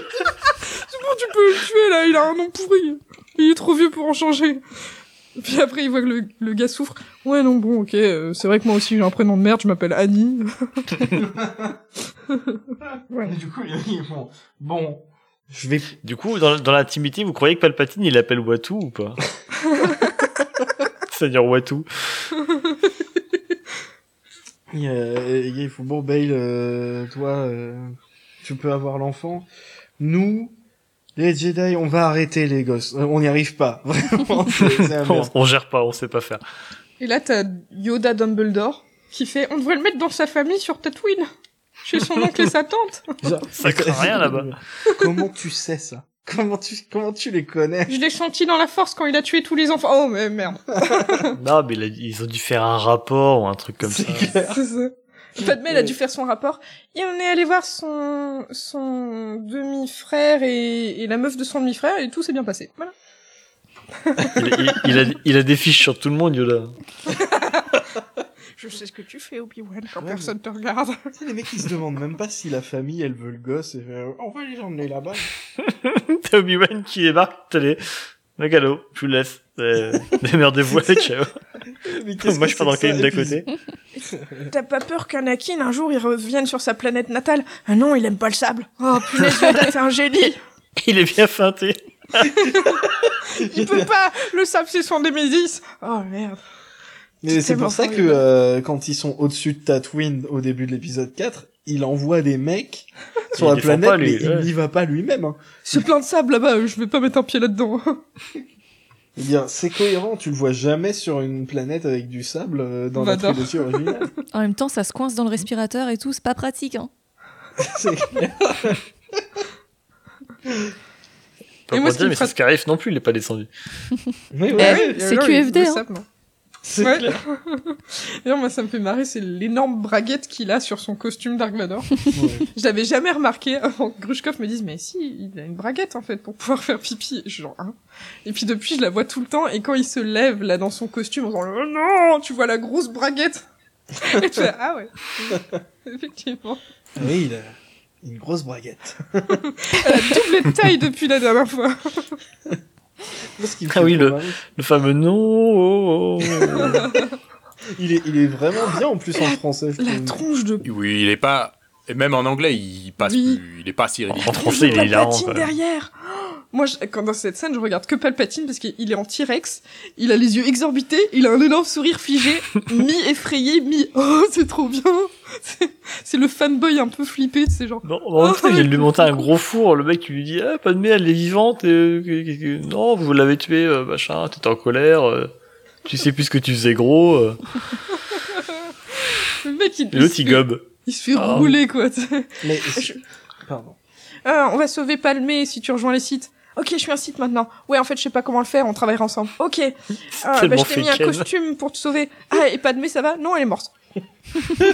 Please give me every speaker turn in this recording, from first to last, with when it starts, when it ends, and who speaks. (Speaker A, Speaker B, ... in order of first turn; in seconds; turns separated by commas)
Speaker A: 0.7-4.6, Speaker A: 5.4-11.1, Speaker B: 11.2-11.8, Speaker A: 12.3-12.6, Speaker B: 13.2-15.9, Speaker C: 16.0-19.2, Speaker C: 21.1-22.3, Speaker B: 24.7-29.5, Speaker B: 30.0-30.6, Speaker B: 31.2-35.3, Speaker C: 34.8-36.4, Speaker A: 37.0-41.3, Speaker A: 41.8-43.3, Speaker B: 43.2-48.0, Speaker C: 43.6-44.6, Speaker A: 47.9-51.3, Speaker C: 51.3-54.4, Speaker B: 53.8-54.6, Speaker A: 54.5-62.9, Speaker B: 55.4-56.0, Speaker A: 64.1-64.9, Speaker C: 64.4-66.8, Speaker A: 67.1-67.8, Speaker A: 68.6-71.0, Speaker B: 70.0-70.3, Speaker B: 71.2-75.3, Speaker C: 75.6-77.8, Speaker C: 78.4-81.4, Speaker B: 80.7-81.1, Speaker B: 81.8-83.4, Speaker C: 82.2-83.5, Speaker A: 84.0-90.4, Speaker B: 84.2-84.5, Speaker C: 90.8-92.4, Speaker A: 92.5-92.8, Speaker B: 92.5-93.9, Speaker A: 93.3-96.4, Speaker B: 97.2-105.8, Speaker A: 97.3-98.2, Speaker C: 103.3-104.5, Speaker A: 105.7-108.0, Speaker B: 109.2-114.1, Speaker A: 113.0-113.9, Speaker D: 114.3-116.9, Speaker B: 117.6-119.4, Speaker B: 120.5-120.7, Speaker C: 121.7-123.5, Speaker A: 121.7-122.3, Speaker B: 124.3-125.0, Speaker A: 124.5-126.1, Speaker D: 124.6-125.8, Speaker B: 126.7-127.2, Speaker A: 126.7-146.6, Speaker B: 132.1-132.5, Speaker B: 147.0-149.4, Speaker A: 149.5-152.1, Speaker B: 153.3-154.4, Speaker C: 153.7-156.9, Speaker B: 156.4-156.7, Speaker A: 156.6-157.1, Speaker B: 157.8-160.2, Speaker A: 159.2-160.6, Speaker E: 160.6-164.9, Speaker A: 163.0-163.4, Speaker C: 164.1-165.6, Speaker A: 164.2-179.3, Speaker C: 177.8-185.3, Speaker C: 185.9-187.4, Speaker A: 188.1-193.0, Speaker C: 189.9-191.6, Speaker B: 192.4-193.8, Speaker A: 194.2-203.7, Speaker C: 200.2-201.3